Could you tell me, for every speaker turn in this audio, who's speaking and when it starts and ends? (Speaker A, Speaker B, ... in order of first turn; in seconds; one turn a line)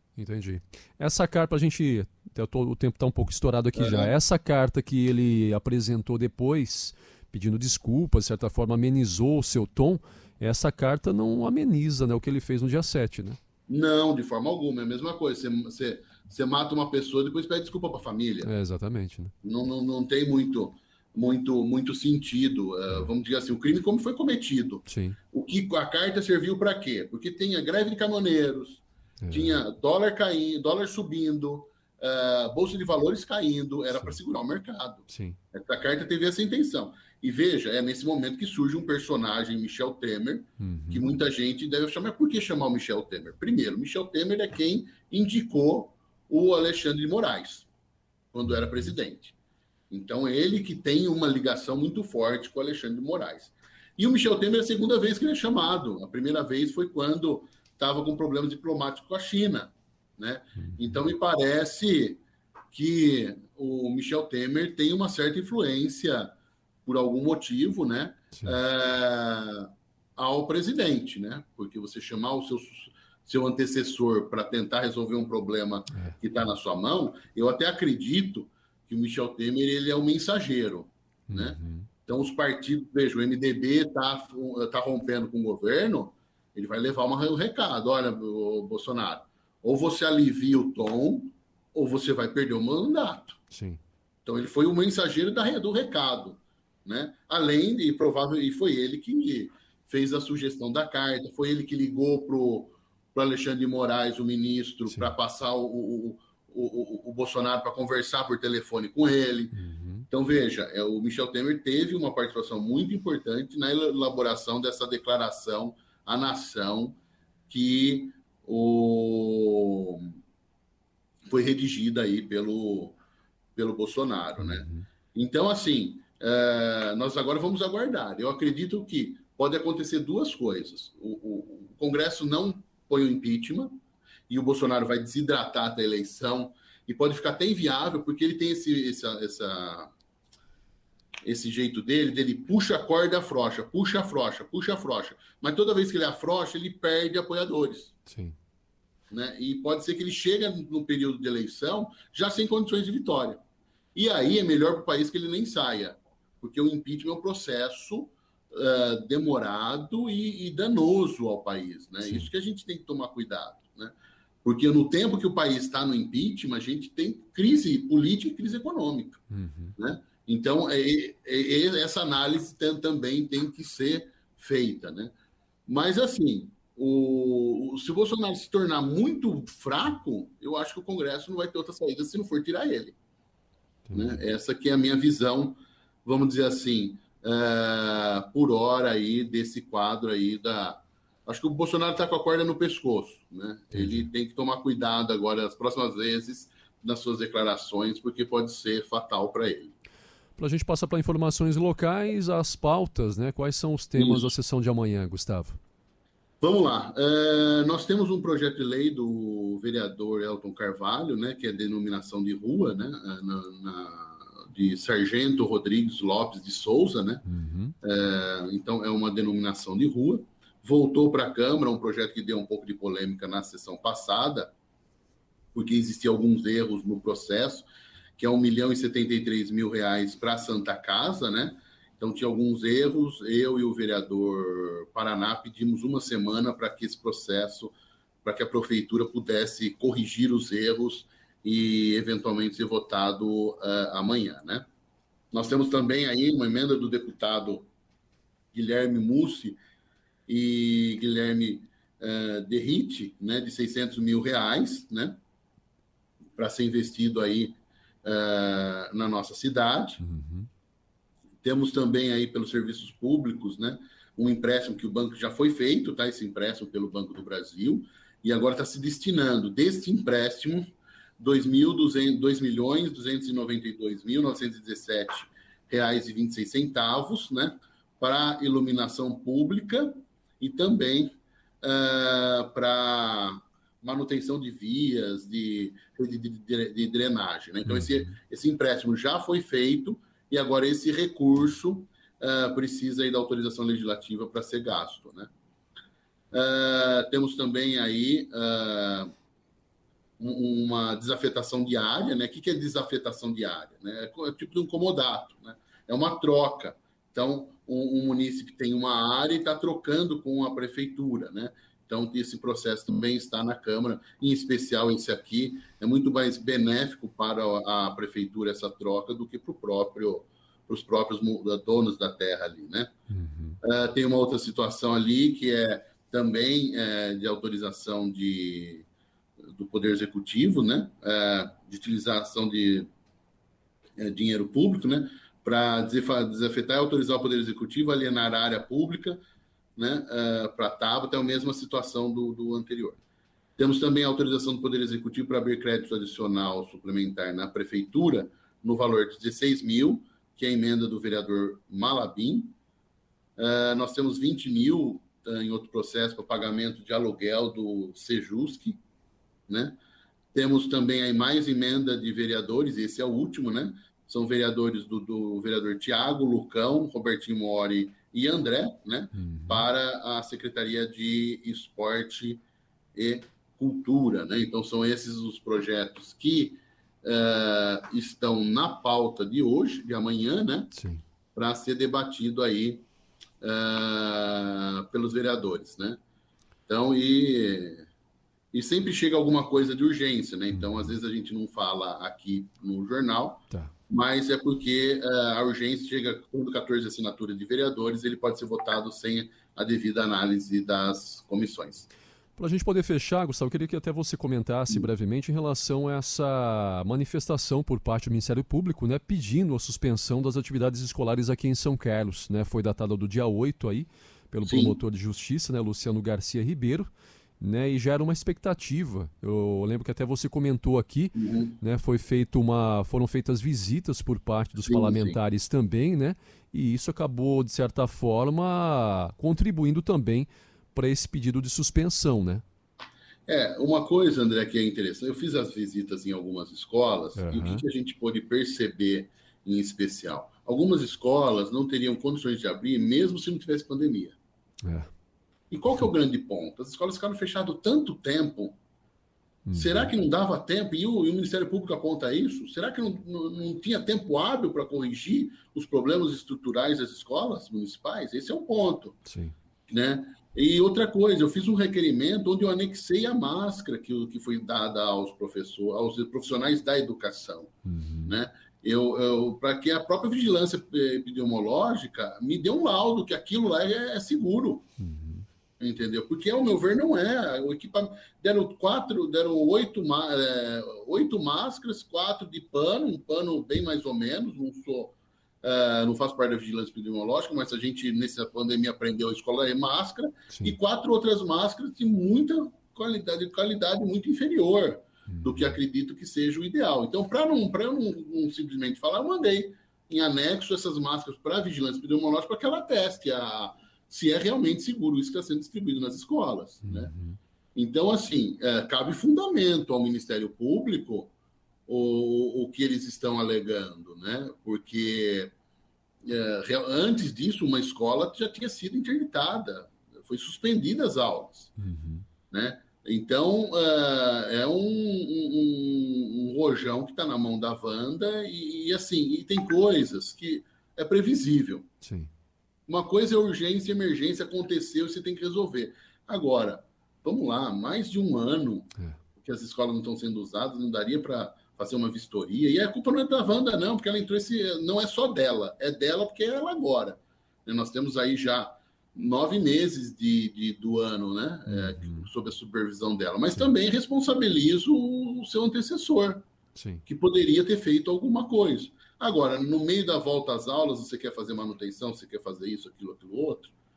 Speaker A: 0.2-13.4
Speaker B: 3.8-4.1
Speaker B: 13.7-18.5
Speaker A: 18.4-19.3
Speaker B: 19.4-47.7
Speaker A: 24.9-25.2
Speaker A: 29.2-29.6
Speaker A: 35.1-35.4
Speaker A: 40.6-41.0
Speaker B: 48.3-49.3
Speaker B: 49.9-62.2
Speaker A: 60.6-61.0
Speaker B: 62.7-66.3
Speaker B: 66.8-93.4
Speaker A: 81.3-81.9
Speaker A: 93.5-93.8
Speaker B: 94.2-109.5
Speaker A: 109.5-110.1
Speaker B: 110.1-117.0
Speaker B: 117.5-120.2
Speaker B: 121.3-123.0
Speaker B: 123.5-133.7
Speaker A: 124.4-124.8
Speaker B: 134.3-139.9
Speaker B: 141.2-147.9
Speaker A: 148.1-148.3
Speaker B: 149.1-153.4
Speaker B: 153.9-163.9
Speaker B: 164.4-169.2
Speaker A: 169.3-169.7
Speaker B: 169.8-175.1
Speaker B: 175.7-182.9
Speaker A: 183.9-184.2
Speaker B: 183.9-199.8
Speaker A: 193.7-194.1
Speaker A: 200.4-205.6
Speaker B: 203.9-204.3
Speaker B: 206.4-217.2
Speaker A: 217.2-217.7
Speaker B: 217.8-224.5
Speaker B: 225.5-244.7
Speaker B: 245.3-247.7
Speaker B: 248.5-249.6
Speaker B: 250.3-255.2
Speaker B: 256.4-260.0
Speaker A: 260.0-260.5
Speaker B: 261.4-295.3
Speaker A: 287.6-288.1
Speaker B: 296.3-299.1
Speaker B: 300.2-322.9
Speaker A: 323.1-323.6
Speaker B: 323.6-328.9
Speaker B: 329.5-332.9
Speaker B: 334.0-339.2
Speaker B: 339.8-343.0
Speaker B: 343.6-352.5
Speaker B: 353.4-358.8
Speaker B: 359.5-359.8
Speaker B: 360.3-372.4
Speaker A: 369.1-369.6
Speaker B: 372.9-380.7
Speaker A: 380.7-381.0
Speaker B: 381.3-382.8
Speaker B: 383.4-386.0
Speaker B: 386.7-387.9
Speaker B: 388.5-401.9
Speaker A: 390.5-390.9
Speaker A: 402.4-432.4
Speaker B: 414.4-414.8
Speaker B: 421.1-421.6
Speaker B: 424.7-425.2
Speaker B: 433.3-444.1
Speaker A: 437.2-437.6
Speaker A: 444.6-444.9
Speaker B: 445.5-448.6
Speaker A: 449.4-449.9
Speaker B: 449.5-459.0
Speaker A: 459.1-459.3
Speaker B: 459.7-467.5
Speaker A: 467.6-468.1
Speaker B: 468.1-474.7
Speaker A: 474.8-475.2
Speaker B: 475.6-506.9
Speaker A: 495.1-495.5
Speaker A: 506.6-507.2
Speaker B: 507.5-511.1
Speaker B: 511.7-515.3
Speaker B: 516.0-521.5
Speaker A: 521.6-522.0
Speaker B: 522.3-531.7
Speaker A: 531.8-532.1
Speaker B: 532.7-556.2
Speaker A: 551.5-552.1
Speaker A: 556.5-556.8
Speaker B: 556.9-563.5